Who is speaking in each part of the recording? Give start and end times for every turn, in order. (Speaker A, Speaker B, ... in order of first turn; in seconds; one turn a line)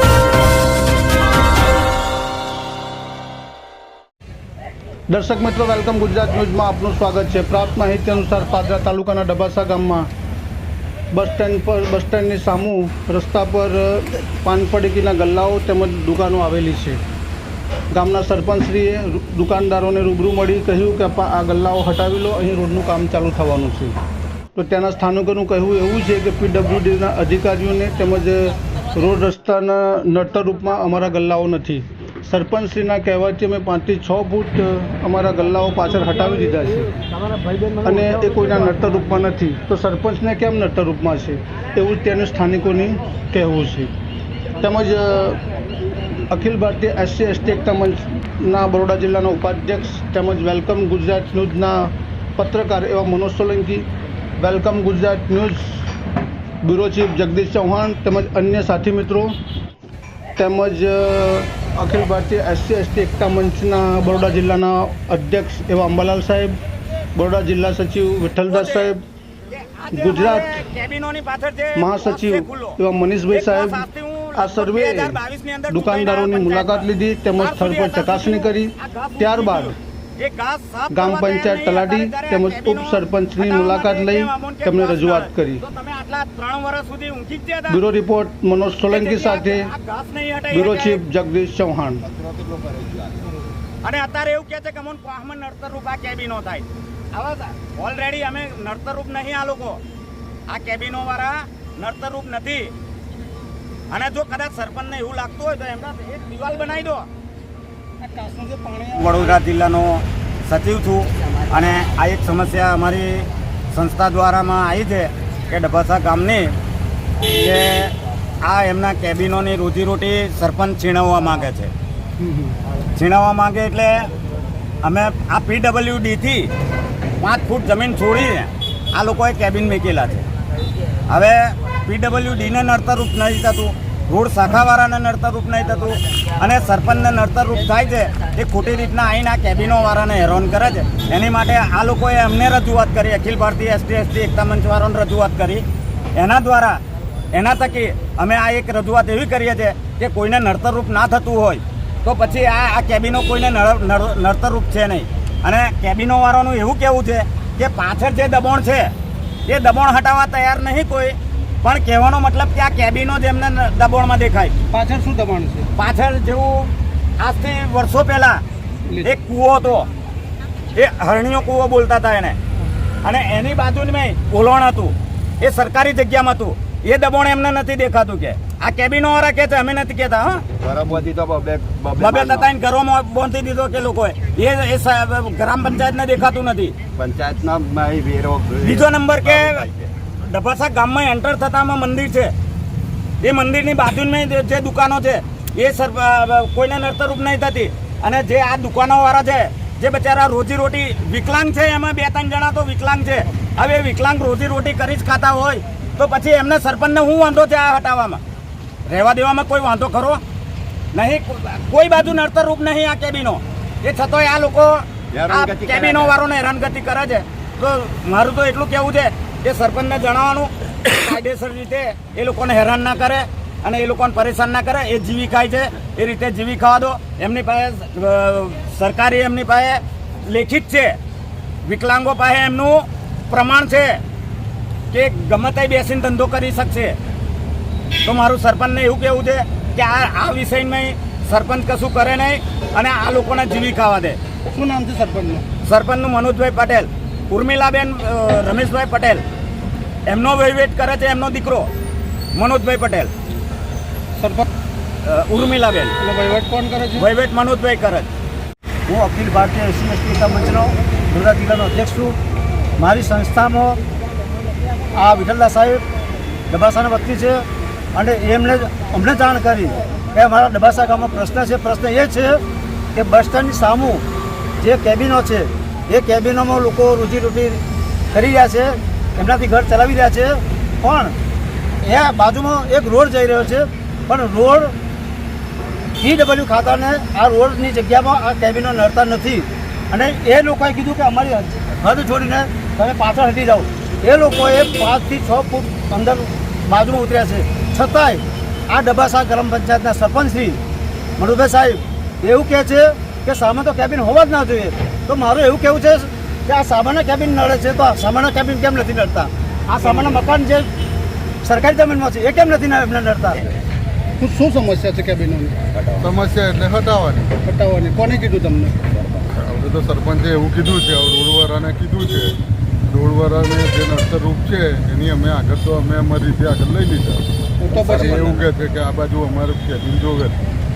Speaker A: 5.1-10.1
Speaker A: 11.1-17.0
Speaker A: 17.9-23.9
Speaker A: 24.5-37.0
Speaker A: 37.8-43.9
Speaker A: 44.6-45.4
Speaker A: 46.3-53.9
Speaker A: 54.4-55.9
Speaker A: 56.6-59.3
Speaker A: 60.4-66.6
Speaker A: 67.2-69.0
Speaker B: 68.5-68.9
Speaker B: 69.5-72.8
Speaker A: 69.9-70.6
Speaker A: 71.8-73.8
Speaker B: 73.3-87.8
Speaker A: 74.3-79.8
Speaker A: 80.9-85.6
Speaker A: 87.7-89.7
Speaker B: 88.9-91.0
Speaker A: 90.5-92.0
Speaker C: 92.0-93.3
Speaker B: 93.8-99.8
Speaker B: 100.5-102.7
Speaker B: 103.9-107.1
Speaker A: 108.0-109.3
Speaker B: 108.9-116.5
Speaker B: 117.2-121.7
Speaker A: 122.2-122.5
Speaker B: 122.9-124.1
Speaker B: 124.8-126.5
Speaker B: 127.2-130.2
Speaker B: 131.1-146.8
Speaker B: 147.3-158.9
Speaker B: 159.4-164.5
Speaker A: 164.7-165.7
Speaker B: 165.8-168.4
Speaker A: 168.9-169.1
Speaker B: 169.0-169.9
Speaker B: 170.7-172.4
Speaker B: 173.0-180.4
Speaker C: 180.5-182.5
Speaker B: 182.0-186.7
Speaker C: 186.9-189.9
Speaker B: 188.6-189.7
Speaker B: 190.2-192.3
Speaker B: 193.2-208.2
Speaker B: 208.8-210.2
Speaker B: 210.9-231.0
Speaker C: 215.1-216.2
Speaker B: 231.6-234.0
Speaker B: 234.9-237.0
Speaker B: 238.0-244.2
Speaker A: 244.5-245.4
Speaker B: 245.6-249.2
Speaker B: 250.1-251.7
Speaker B: 252.3-253.1
Speaker A: 254.2-254.4
Speaker B: 255.0-255.9
Speaker A: 256.0-257.1
Speaker B: 256.9-258.1
Speaker D: 258.9-262.1
Speaker D: 262.8-263.8
Speaker D: 264.9-265.8
Speaker D: 266.5-267.4
Speaker D: 267.9-272.4
Speaker D: 272.9-274.0
Speaker D: 274.6-277.6
Speaker D: 278.1-281.1
Speaker D: 281.8-284.7
Speaker D: 286.0-300.6
Speaker D: 301.2-310.6
Speaker B: 309.8-310.1
Speaker D: 311.4-313.5
Speaker A: 314.2-315.7
Speaker E: 316.0-317.4
Speaker A: 317.4-318.9
Speaker E: 319.3-322.3
Speaker E: 322.9-327.2
Speaker A: 327.6-328.4
Speaker C: 327.7-328.2
Speaker E: 328.1-330.4